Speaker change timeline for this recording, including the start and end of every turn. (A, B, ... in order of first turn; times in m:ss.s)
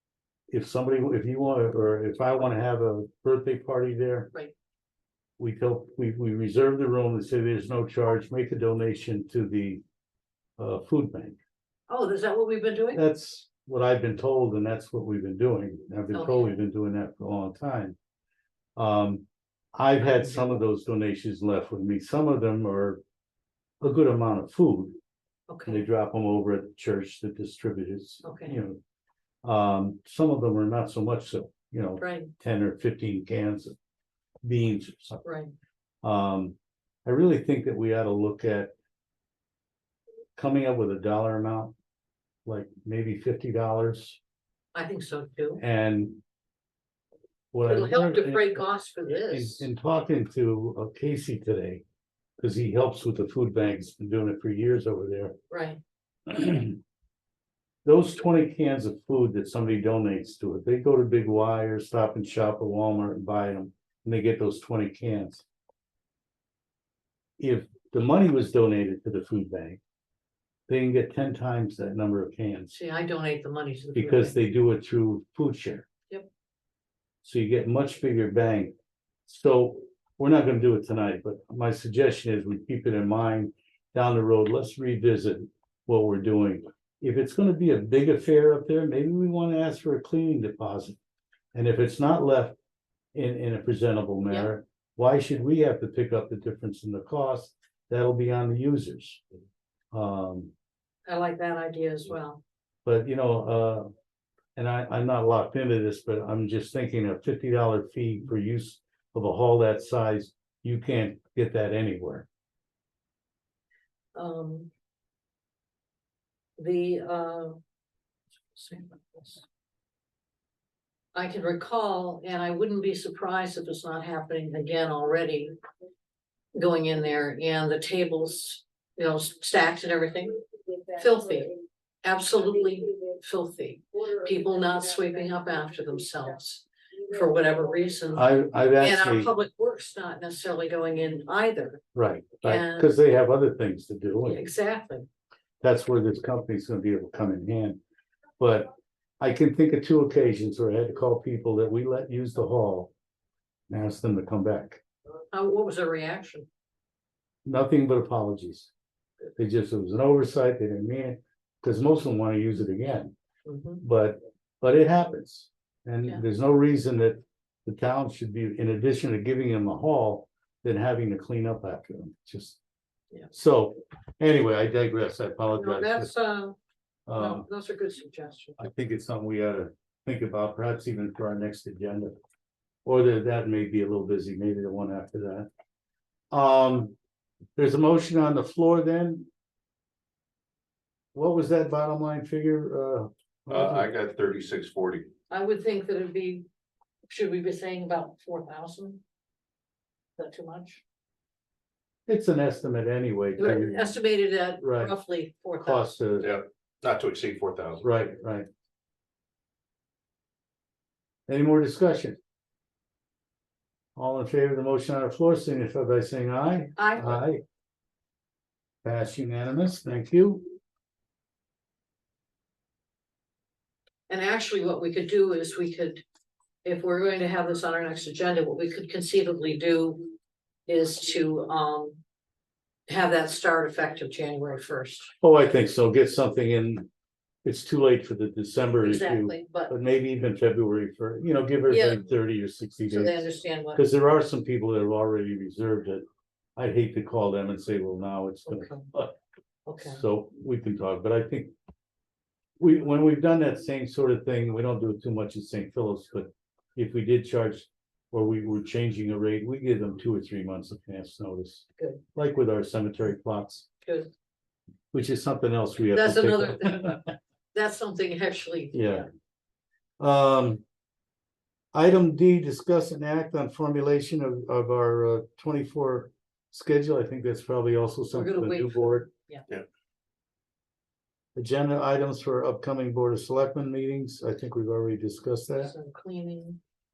0:00.5-0:04.3 A
0:05.4-0:09.8 A
0:10.6-0:11.4 A
0:11.9-0:13.0 B
0:12.9-0:18.0 A
0:16.1-0:16.6 B
0:18.8-0:23.0 A
0:23.8-0:25.0 A
0:25.5-0:25.8 B
0:25.7-0:28.8 A
0:28.2-0:28.6 B
0:29.4-0:33.8 A
0:32.0-0:32.3 B
0:34.4-0:35.2 A
0:35.2-0:35.5 B
0:36.0-0:38.7 A
0:40.4-0:41.7 A
0:42.5-0:44.2 A
0:44.8-0:45.6 B
0:45.6-0:46.2 A
0:47.5-0:51.8 A
0:47.6-0:49.7 B
0:52.4-0:55.4 A
0:55.5-0:55.8 B
0:56.3-0:56.8 A
0:57.8-1:05.4 A
1:07.4-1:09.8 A
1:10.7-1:12.7 A
1:12.7-1:14.4 B
1:14.0-1:15.9 A
1:17.2-1:18.7 A
1:19.3-1:31.0 A
1:31.5-1:32.6 A
1:33.1-1:39.2 A
1:39.9-1:40.5 A
1:41.1-1:42.4 B
1:42.8-1:43.9 A
1:44.6-1:52.3 A
1:54.2-1:54.7 B
1:56.6-1:57.6 B
1:58.5-1:59.4 B
2:01.1-2:05.6 B
2:06.6-2:10.4 B
2:10.9-2:21.8 B
2:18.1-2:19.3 A
2:21.9-2:24.4 A
2:22.4-2:22.9 B
2:24.2-2:25.1 B
2:25.6-2:27.8 A
2:28.4-2:28.7 A
2:29.2-2:32.9 A
2:33.7-2:34.8 A
2:35.3-2:36.5 B
2:37.4-2:38.7 A
2:39.4-2:43.1 A
2:43.5-2:43.8 B
2:43.8-2:52.6 A
2:53.3-2:56.1 A
2:55.6-2:56.6 B
2:57.1-2:57.5 A
2:57.2-2:58.6 B
2:58.6-3:02.2 A
3:02.8-3:05.5 A
3:06.3-3:07.0 A
3:07.6-3:09.3 A
3:11.1-3:13.9 A
3:13.5-3:15.1 C
3:15.3-3:16.4 B
3:17.1-3:19.0 B
3:20.2-3:20.8 B
3:22.1-3:24.0 A
3:23.4-3:26.0 B
3:24.6-3:25.0 A
3:25.6-3:26.3 A
3:26.2-3:27.8 C
3:27.8-3:28.5 A
3:31.3-3:32.2 A
3:34.0-3:37.4 A
3:36.8-3:37.2 B
3:38.8-3:40.5 A
3:44.1-3:46.0 B
3:46.6-3:50.1 B
3:50.7-3:52.0 B
3:52.9-3:55.1 B
3:55.2-3:56.9 A
3:57.4-4:06.0 A
3:58.8-3:59.7 B
4:01.7-4:02.1 B
4:02.9-4:03.8 B
4:06.6-4:09.2 A
4:08.5-4:08.8 B
4:09.7-4:10.0 B
4:09.8-4:11.5 A
4:12.6-4:23.7 A
4:21.8-4:22.0 B
4:23.8-4:24.1 B
4:24.9-4:27.2 A
4:25.8-4:27.0 B
4:27.5-4:29.0 B
4:28.7-4:29.1 A
4:30.0-4:30.6 A
4:31.7-4:39.1 A
4:38.1-4:39.4 B
4:41.4-4:45.7 A
4:45.6-4:46.6 B